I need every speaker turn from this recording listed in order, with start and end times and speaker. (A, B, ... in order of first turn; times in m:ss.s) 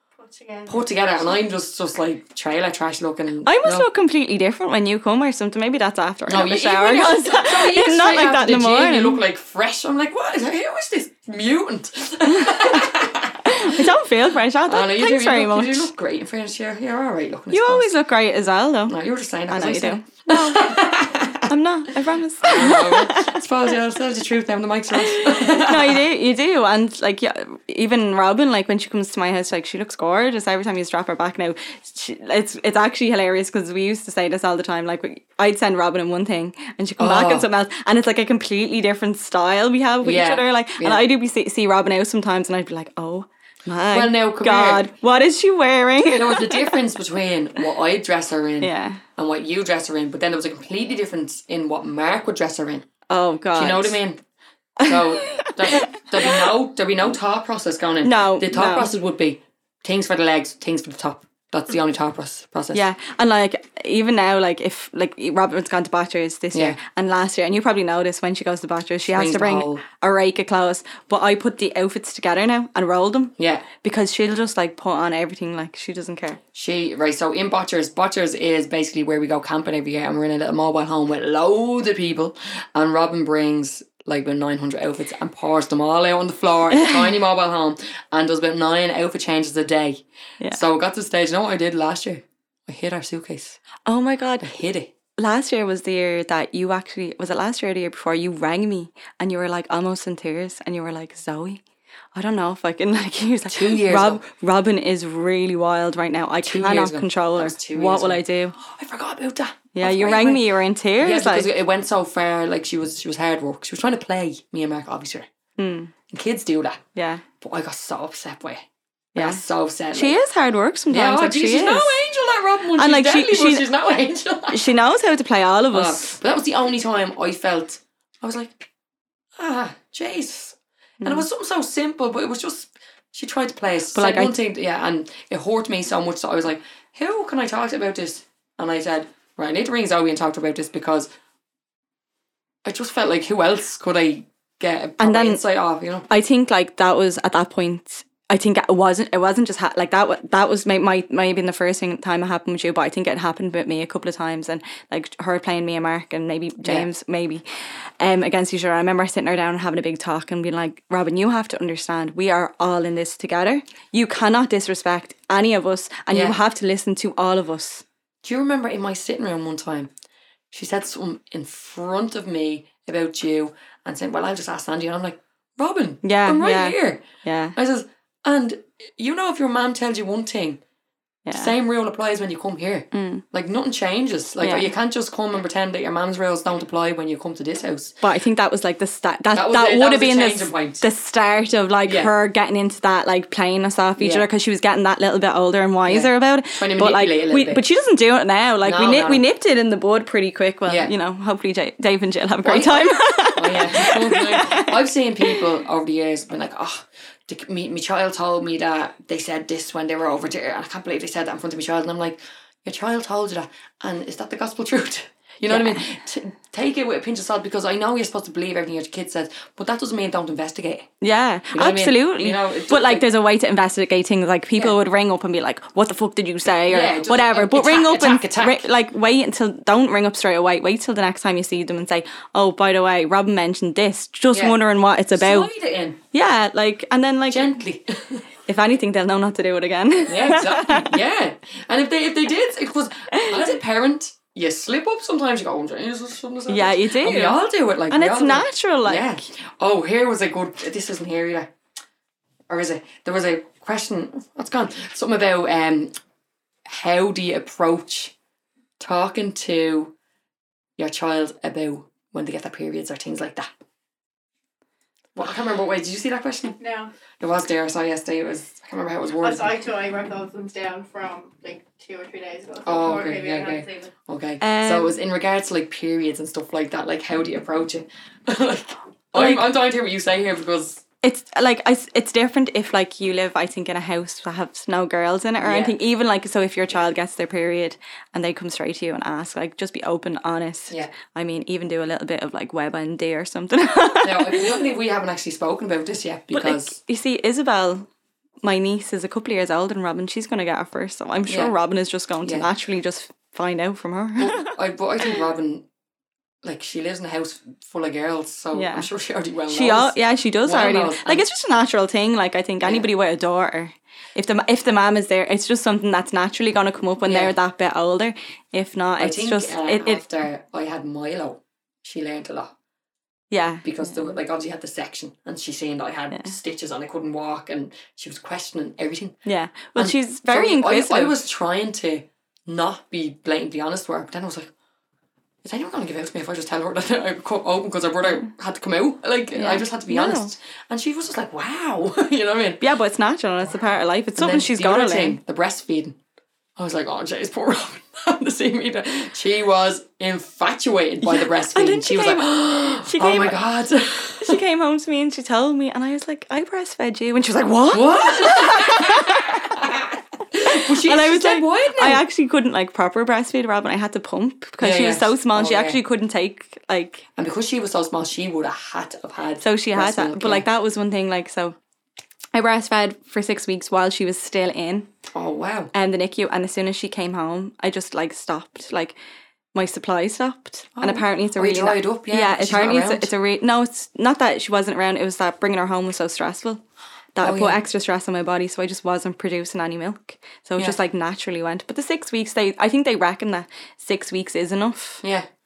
0:00.2-0:01.4 A
0:00.7-0:03.9 B
0:03.4-0:09.2 C
0:06.3-0:13.8 B
0:12.3-0:12.9 C
0:13.4-0:15.9 C
0:14.6-0:17.9 B
0:17.5-0:19.0 C
0:18.9-0:21.5 B
0:19.5-0:20.8 C
0:21.5-0:23.4 C
0:22.4-0:26.0 B
0:24.9-0:46.8 C
0:37.0-0:37.5 B
0:40.0-0:41.0 B
0:43.9-0:44.9 B
0:46.0-0:52.8 B
0:48.6-0:49.0 C
0:53.1-0:54.0 C
0:53.6-0:54.2 B
0:54.8-0:56.5 C
0:54.8-1:02.8 B
0:58.0-0:58.9 C
1:02.7-1:16.4 C
1:06.5-1:06.8 B
1:09.1-1:09.8 B
1:13.4-1:13.7 B
1:16.5-1:33.6 B
1:26.7-1:27.0 C
1:33.8-1:34.5 C
1:34.4-1:34.9 B
1:35.2-1:41.6 C
1:42.1-1:48.6 C
1:43.5-1:44.2 B
1:46.4-1:50.5 B
1:49.7-1:51.5 C
1:51.0-1:55.3 B
1:55.6-1:55.9 C
1:56.1-1:56.8 B
1:56.9-1:57.2 C
1:57.4-2:00.2 B
1:59.1-1:59.4 C
1:59.9-2:02.0 C
2:00.9-2:04.7 B
2:02.8-2:03.7 C
2:04.5-2:06.2 C
2:05.7-2:08.7 B
2:09.4-2:21.1 B
2:11.0-2:11.2 C
2:13.9-2:14.4 C
2:22.6-2:26.1 B
2:25.0-2:25.4 C
2:26.1-2:37.4 C
2:36.6-2:36.9 B
2:38.0-2:47.8 C
2:46.1-2:46.4 B
2:48.2-2:49.9 B
2:50.5-2:57.0 B
2:56.0-2:57.6 C
2:57.5-3:00.6 B
3:01.2-3:01.5 C
3:01.3-3:08.0 B
3:02.9-3:03.2 C
3:04.4-3:04.7 C
3:08.0-3:25.4 C
3:09.3-3:10.8 B
3:11.8-3:12.1 B
3:14.0-3:14.3 B
3:15.8-3:17.6 B
3:18.6-3:19.2 B
3:20.6-3:20.9 B
3:22.4-3:40.9 B
3:35.5-3:35.8 C
3:41.0-3:55.5 C
3:41.5-3:43.0 B
3:46.7-3:48.7 B
3:54.3-3:54.6 B
3:55.1-3:56.0 B
3:56.1-3:57.5 C
3:57.3-3:58.2 B
3:58.4-4:01.0 C
4:00.1-4:11.5 B
4:03.1-4:03.4 C
4:06.5-4:07.4 C
4:07.9-4:09.2 C
4:12.5-4:15.9 B
4:16.6-4:18.1 B
4:18.8-4:19.9 B
4:20.8-4:23.5 B
4:25.1-4:26.6 B
4:26.6-4:26.9 A
4:27.2-4:29.5 B
4:29.2-4:33.9 A
4:32.6-4:40.8 B
4:34.4-4:34.9 C
4:39.1-4:39.4 C
4:41.0-4:54.6 C
4:45.4-4:45.8 B
4:54.0-4:56.8 B
4:56.3-4:57.9 C
4:58.4-5:04.5 C
5:01.3-5:01.5 B
5:02.2-5:02.5 B
5:04.2-5:05.7 B
5:06.4-5:11.2 B
5:08.5-5:08.9 C
5:09.5-5:20.0 C
5:17.0-5:17.3 B
5:19.0-5:22.5 B
5:23.3-5:24.1 C
5:23.6-5:29.2 B
5:29.2-5:31.1 C
5:29.8-5:34.5 B
5:35.4-5:42.6 B
5:39.3-5:40.3 C
5:42.6-5:45.2 C
5:44.2-5:46.0 B
5:46.6-5:54.4 B
5:51.0-5:53.4 C
5:54.2-5:59.4 C
5:57.7-6:02.0 B
6:00.4-6:07.0 C
6:04.6-6:05.8 B
6:07.2-6:10.5 B
6:09.4-6:11.6 C
6:12.3-6:14.9 C
6:15.1-6:15.7 B
6:15.7-6:19.0 C
6:19.5-6:26.6 C
6:20.8-6:23.1 B
6:27.1-6:35.0 C
6:27.2-6:27.6 B
6:35.0-6:35.3 B